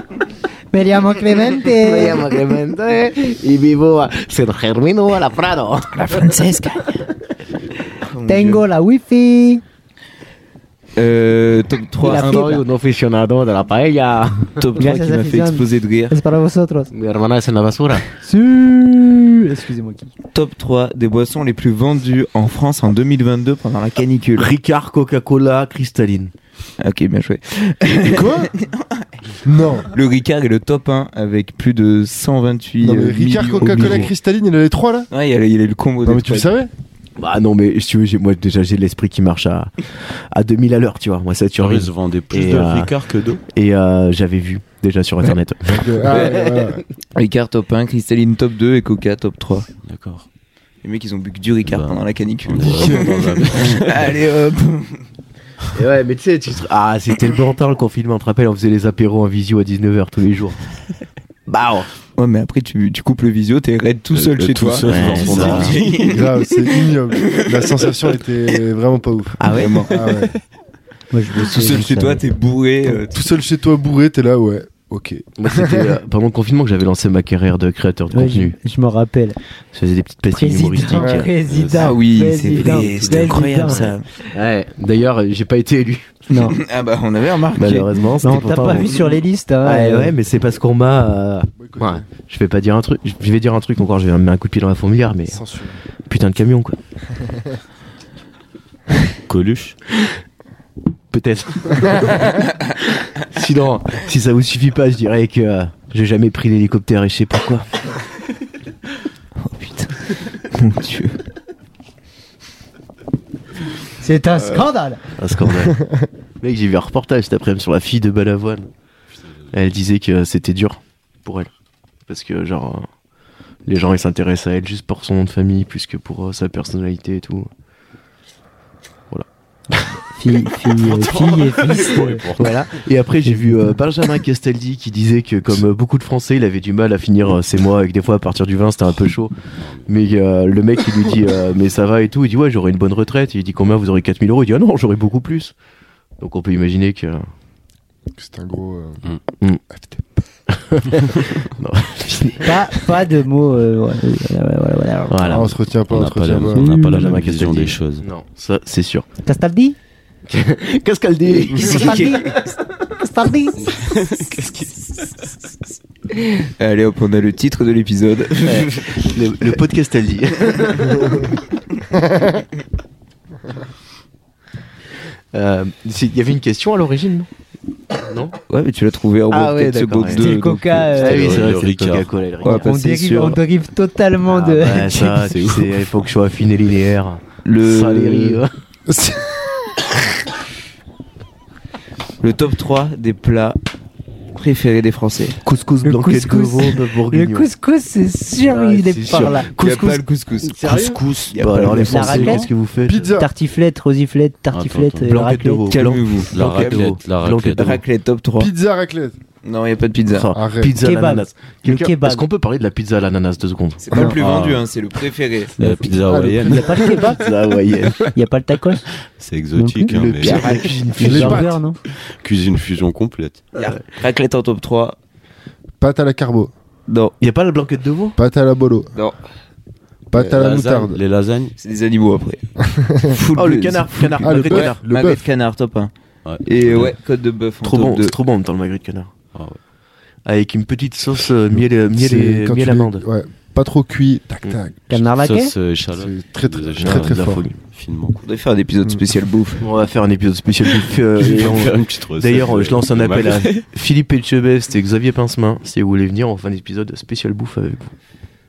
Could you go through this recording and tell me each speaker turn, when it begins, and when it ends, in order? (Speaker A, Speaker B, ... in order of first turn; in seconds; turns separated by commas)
Speaker A: 0.7-2.3, Speaker B: 1.6-6.2, Speaker C: 5.9-7.0, Speaker C: 8.0-8.6, Speaker A: 8.2-9.6, Speaker C: 10.9-12.6, Speaker B: 12.0-14.5, Speaker A: 12.1-12.6, Speaker C: 14.6-16.1, Speaker A: 14.8-16.9, Speaker B: 16.9-18.1, Speaker A: 18.2-20.1, Speaker C: 20.3-24.5, Speaker B: 24.4-26.3, Speaker C: 26.8-29.1, Speaker D: 28.0-28.5, Speaker D: 29.4-29.9, Speaker C: 29.9-34.1, Speaker D: 32.8-35.1, Speaker C: 35.1-36.5, Speaker D: 36.0-36.7, Speaker B: 37.2-42.9, Speaker E: 41.6-43.4, Speaker B: 43.5-46.8, Speaker D: 45.6-46.8, Speaker C: 46.1-46.4, Speaker C: 47.1-49.7, Speaker E: 49.8-50.2, Speaker C: 50.8-55.0, Speaker E: 51.6-54.2, Speaker D: 52.7-53.1, Speaker B: 55.7-60.6, Speaker B: 61.5-61.9, Speaker C: 62.1-67.7, Speaker E: 64.1-66.3, Speaker B: 64.9-65.8, Speaker D: 66.0-70.3, Speaker B: 69.4-69.9, Speaker C: 69.5-70.2, Speaker A: 71.1-72.2, Speaker C: 71.4-73.2, Speaker D: 73.1-75.9, Speaker B: 75.4-78.5, Speaker A: 78.1-79.4, Speaker B: 79.7-81.3, Speaker A: 80.3-83.9, Speaker D: 81.0-81.3, Speaker E: 81.5-83.3, Speaker C: 81.7-84.1, Speaker B: 82.9-86.3, Speaker A: 86.3-86.6, Speaker C: 86.3-87.9, Speaker B: 87.5-95.4, Speaker A: 88.2-90.1, Speaker D: 91.6-92.0, Speaker D: 95.3-95.8, Speaker B: 96.1-96.8, Speaker E: 99.3-99.8, Speaker B: 101.1-107.8, Speaker C: 109.4-111.2, Speaker A: 114.0-115.0, Speaker B: 115.2-115.8, Speaker B: 116.4-118.7, Speaker B: 119.5-121.5, Speaker B: 122.1-122.9, Speaker B: 123.7-127.5, Speaker A: 130.0-132.3, Speaker E: 130.8-132.7, Speaker B: 132.3-139.3, Speaker A: 133.2-133.7, Speaker E: 139.6-139.9, Speaker B: 139.8-145.5, Speaker B: 146.2-147.3, Speaker D: 148.2-149.0, Speaker D: 149.7-150.2, Speaker B: 150.5-152.9, Speaker A: 152.4-155.5, Speaker B: 155.1-155.6, Speaker D: 155.3-156.7, Speaker E: 155.9-158.1, Speaker A: 156.6-157.1, Speaker B: 156.8-159.1, Speaker A: 159.2-159.8, Speaker B: 160.3-162.2, Speaker A: 161.5-162.4, Speaker C: 161.6-162.4, Speaker A: 163.0-163.7, Speaker E: 163.6-164.7, Speaker C: 166.1-169.1, Speaker B: 168.4-171.3, Speaker B: 175.3-177.3, Speaker B: 177.9-178.4, Speaker C: 178.5-181.4, Speaker B: 179.3-180.4, Speaker A: 180.1-181.3, Speaker B: 180.9-182.7, Speaker E: 181.0-182.1, Speaker C: 182.4-183.4, Speaker A: 182.4-185.3, Speaker B: 184.3-188.5, Speaker E: 185.2-185.9, Speaker C: 187.4-188.4, Speaker D: 188.9-189.4, Speaker C: 192.2-193.6, Speaker C: 194.3-195.4, Speaker B: 195.4-197.5, Speaker A: 195.8-199.5, Speaker B: 198.4-203.2, Speaker C: 199.5-200.7, Speaker E: 200.6-202.3, Speaker C: 201.3-202.4, Speaker A: 201.8-202.5, Speaker D: 202.8-203.3, Speaker A: 203.1-205.7, Speaker E: 204.5-205.1, Speaker B: 205.1-207.8, Speaker C: 205.7-206.9, Speaker E: 206.3-207.8, Speaker C: 207.6-208.5, Speaker D: 208.4-209.2, Speaker C: 209.4-210.3, Speaker B: 210.1-213.9, Speaker D: 210.3-210.7, Speaker A: 210.8-212.2, Speaker C: 213.8-215.6, Speaker E: 214.0-214.6, Speaker E: 215.6-216.8, Speaker B: 215.6-215.9, Speaker D: 216.1-216.9, Speaker A: 216.3-217.3, Speaker B: 216.8-218.1, Speaker A: 218.1-218.9, Speaker E: 219.2-220.6, Speaker A: 219.6-220.0, Speaker B: 219.9-221.5, Speaker C: 220.2-220.9, Speaker A: 220.5-221.8, Speaker D: 221.0-221.6, Speaker E: 221.9-223.4, Speaker C: 223.6-225.0, Speaker D: 225.8-226.5, Speaker C: 226.9-227.1, Speaker B: 227.2-228.2, Speaker D: 228.2-228.9, Speaker D: 230.1-231.0, Speaker E: 230.2-231.6, Speaker C: 231.6-232.4, Speaker D: 232.7-233.2, Speaker C: 233.1-235.9, Speaker B: 233.3-234.8, Speaker D: 234.2-235.2, Speaker E: 236.2-236.9, Speaker C: 236.4-238.1, Speaker B: 237.6-239.1, Speaker E: 239.3-239.6, Speaker B: 240.2-243.0, Speaker D: 241.9-244.8, Speaker A: 244.9-245.5, Speaker E: 245.2-248.3, Speaker D: 245.9-247.4, Speaker B: 246.8-247.5, Speaker C: 248.2-249.7, Speaker B: 249.6-257.9, Speaker E: 251.1-253.6